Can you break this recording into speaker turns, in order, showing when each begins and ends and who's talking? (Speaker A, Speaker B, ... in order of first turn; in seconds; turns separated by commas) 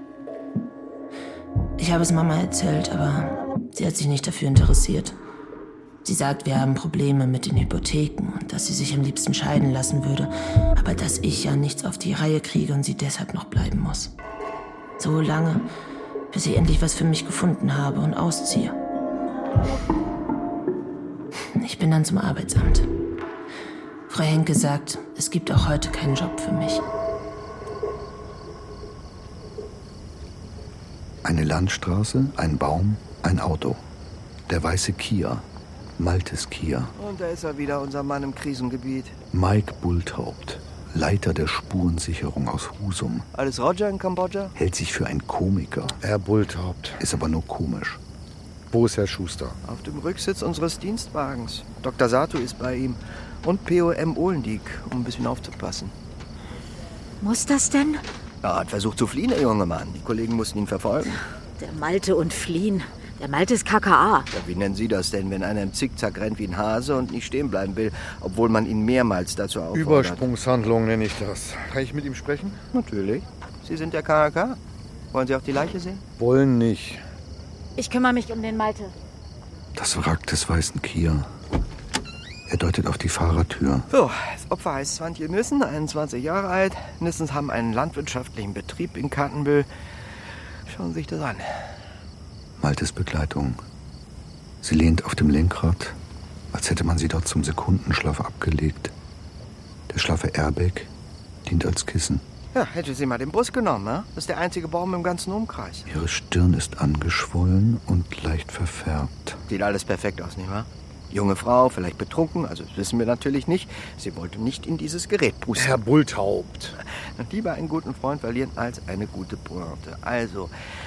Speaker A: 1.8-5.2, Speaker A: 6.0-14.1, Speaker A: 15.0-15.7, Speaker A: 16.3-18.8, Speaker A: 21.5-22.9, Speaker A: 24.1-26.8, Speaker B: 31.2-33.8, Speaker B: 34.5-35.5, Speaker B: 36.0-36.9, Speaker C: 37.0-39.2, Speaker B: 39.3-43.2, Speaker C: 43.3-44.5, Speaker B: 44.5-46.0, Speaker D: 46.0-47.0, Speaker B: 47.0-48.0, Speaker D: 48.7-49.6, Speaker C: 49.6-55.9, Speaker E: 57.2-58.0, Speaker C: 58.4-61.2, Speaker E: 61.6-64.3, Speaker C: 64.3-70.2, Speaker D: 69.7-72.6, Speaker C: 72.7-74.6, Speaker C: 75.1-76.0, Speaker D: 76.2-77.0, Speaker E: 77.8-78.9, Speaker B: 79.7-81.3, Speaker B: 82.5-83.9, Speaker C: 83.9-89.7, Speaker C: 90.7-91.5, Speaker B: 92.6-93.6, Speaker B: 94.6-96.0, Speaker B: 96.5-98.9, Speaker B: 99.9-100.9, Speaker B: 101.5-102.2, Speaker C: 102.5-105.9, Speaker B: 105.9-109.4, Speaker C: 109.5-115.8, Speaker D: 115.5-116.7, Speaker C: 117.2-120.5